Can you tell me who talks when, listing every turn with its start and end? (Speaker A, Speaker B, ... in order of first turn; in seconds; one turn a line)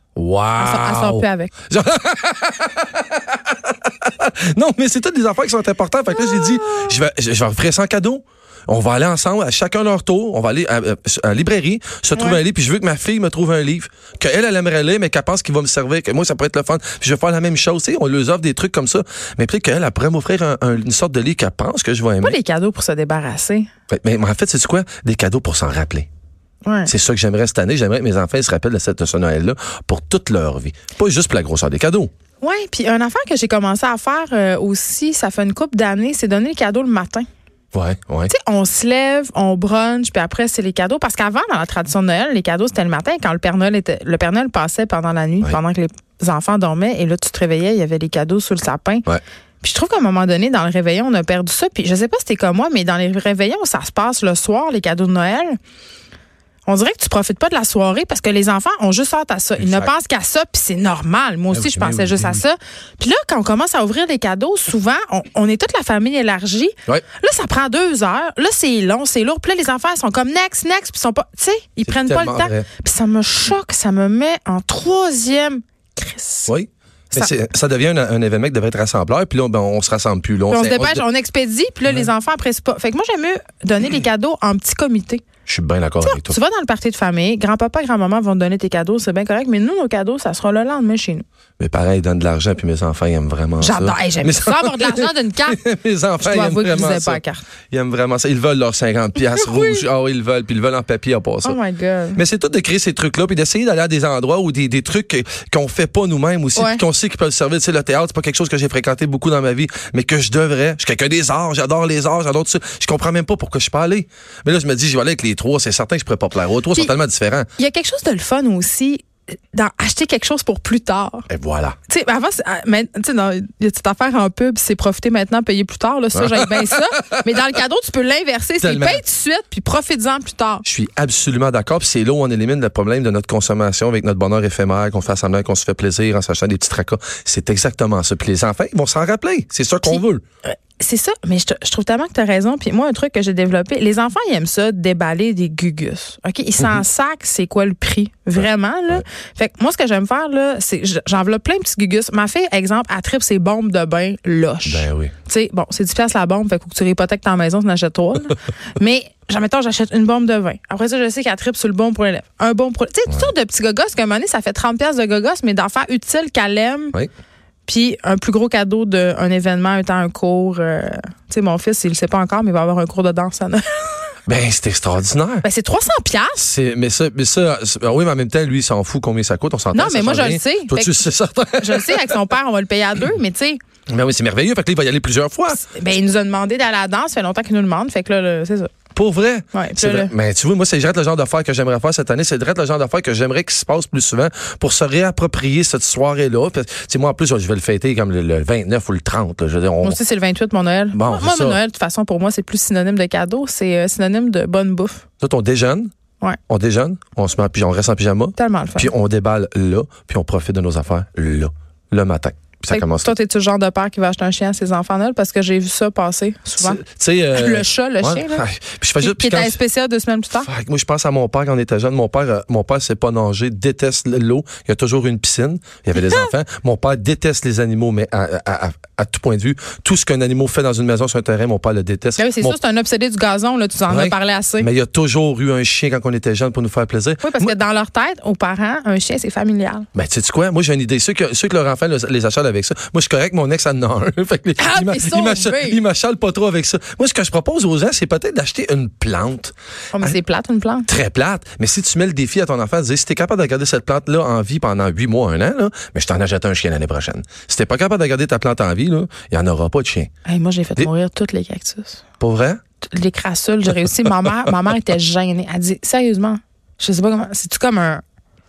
Speaker A: 0.1-22.4
Speaker B: 0.6-1.5
Speaker B: 6.3-6.8
Speaker B: 12.2-12.4
Speaker B: 22.2-23.7
Speaker A: 23.9-26.1
Speaker B: 26.6-26.9
Speaker A: 26.9-32.1
Speaker B: 32.4-37.2
Speaker A: 37.7-38.3
Speaker B: 38.3-49.0
Speaker B: 49.6-55.6
Speaker B: 56.6-76.5
Speaker A: 59.6-59.9
Speaker A: 61.5-62.4
Speaker A: 71.9-72.7
Speaker A: 76.5-81.0
Speaker B: 80.5-85.2
Speaker A: 85.5-86.3
Speaker B: 86.0-91.2
Speaker A: 91.6-101.6
Speaker B: 93.6-95.6
Speaker B: 96.2-97.4
Speaker B: 99.2-99.8
Speaker B: 101.4-102.2
Speaker A: 102.1-117.5
Speaker B: 106.5-106.8
Speaker B: 117.6-121.3
Speaker A: 121.3-121.8
Speaker B: 121.9-130.6
Speaker A: 126.1-127.3
Speaker A: 128.6-129.0
Speaker A: 130.6-140.2
Speaker B: 139.8-167.0
Speaker A: 148.3-149.0
Speaker A: 154.6-155.1
Speaker B: 167.7-174.1
Speaker A: 174.3-175.4
Speaker B: 175.4-176.5
Speaker A: 176.4-182.3
Speaker B: 179.7-181.0
Speaker B: 181.6-183.6
Speaker A: 183.9-185.6
Speaker B: 185.5-188.7
Speaker A: 188.9-200.0
Speaker B: 189.5-190.1
Speaker B: 199.8-205.0
Speaker A: 200.9-201.6
Speaker A: 205.2-205.9
Speaker A: 206.5-213.1
Speaker B: 208.3-208.9
Speaker B: 212.7-216.8
Speaker A: 216.6-219.6
Speaker B: 217.3-218.4
Speaker B: 219.0-220.5
Speaker A: 220.4-232.6
Speaker B: 225.9-226.3
Speaker B: 232.2-234.7
Speaker A: 233.9-237.5
Speaker B: 237.2-239.9
Speaker A: 239.9-250.1
Speaker B: 244.6-245.8
Speaker B: 249.9-250.9
Speaker A: 250.9-260.1
Speaker B: 260.2-262.0
Speaker A: 262.2-262.6
Speaker B: 262.8-268.0